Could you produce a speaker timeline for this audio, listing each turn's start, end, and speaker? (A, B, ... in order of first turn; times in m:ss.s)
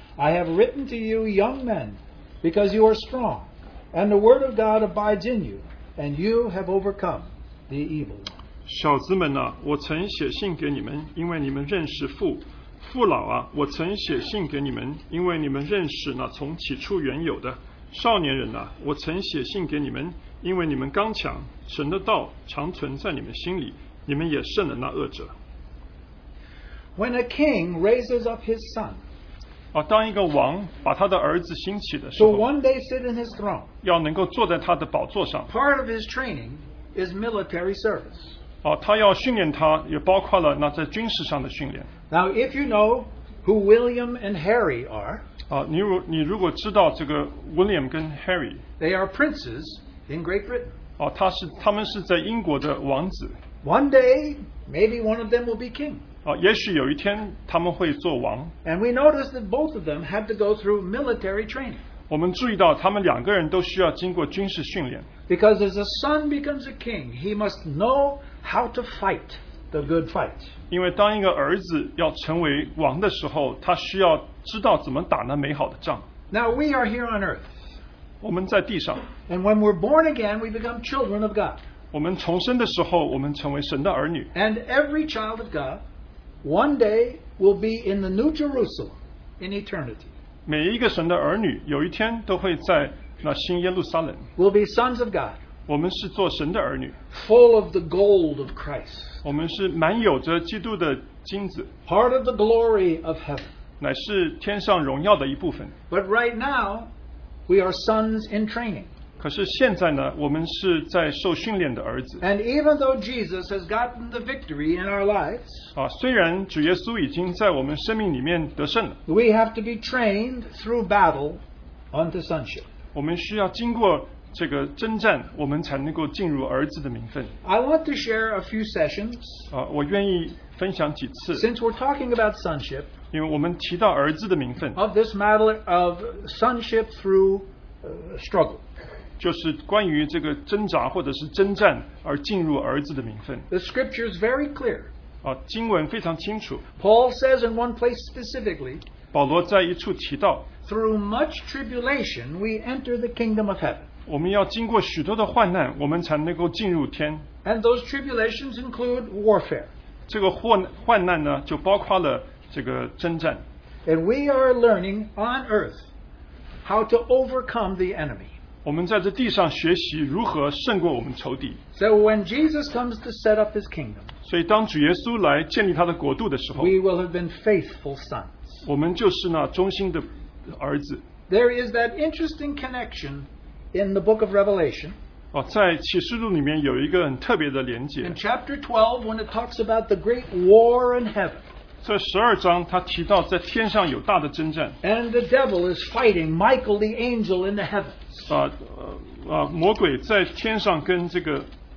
0:00.2-0:08.4 A
0:08.6-0:25.3 B
0:26.9-0:29.0 A
0:29.7-0:32.5 B
0:32.2-0:33.7 A
0:33.8-0:35.5 B
0:35.5-0:38.3 A
0:38.6-0:41.9 B
0:42.1-0:45.2 A
0:45.5-0:48.6 B
0:48.8-0:50.8 A
0:51.0-0:53.4 B
0:53.6-0:56.0 A
0:56.2-0:58.5 B
0:58.6-1:01.8 A
1:02.1-1:05.1 B
1:05.3-1:10.5 A
1:10.7-1:16.0 B
1:16.3-1:17.6 A
1:18.2-1:19.1 B
1:19.3-1:21.6 A
1:21.9-1:24.3 B
1:24.3-1:25.8 A
1:26.4-1:30.1 A
1:30.4-1:34.3 B
1:34.4-1:35.4 A
1:35.7-1:37.0 B
1:37.1-1:39.2 A
1:39.2-1:41.7 B
1:41.8-1:43.5 A
1:43.8-1:45.7 B
1:45.9-1:46.9 A
1:47.5-1:48.9 A
1:49.2-1:52.2 B
1:52.2-1:55.7 A
1:55.7-1:59.0 B
1:59.0-2:02.7 A
2:02.9-2:07.3 B
2:07.4-2:09.5 A
2:09.5-2:11.5 B
2:11.3-2:12.9 A
2:13.1-2:14.8 B
2:14.7-2:18.6 A
2:19.2-2:23.5 B
2:23.5-2:24.9 A
2:25.2-2:26.6 B
2:26.8-2:28.8 A
2:29.1-2:30.5 B
2:30.6-2:33.9 A
2:34.1-2:37.3 B
2:37.4-2:39.7 A
2:40.1-2:43.4 B
2:43.8-2:45.9 A
2:46.6-2:48.3 A
2:48.6-2:51.6 B
2:51.7-2:54.1 A
2:54.2-2:56.7 B
2:56.5-2:58.6 A
2:58.6-3:01.0 B
3:01.3-3:05.0 A
3:05.3-3:08.2 B
3:08.0-3:11.4 A
3:11.8-3:14.8 B
3:14.8-3:18.3 A
3:18.3-3:21.5 B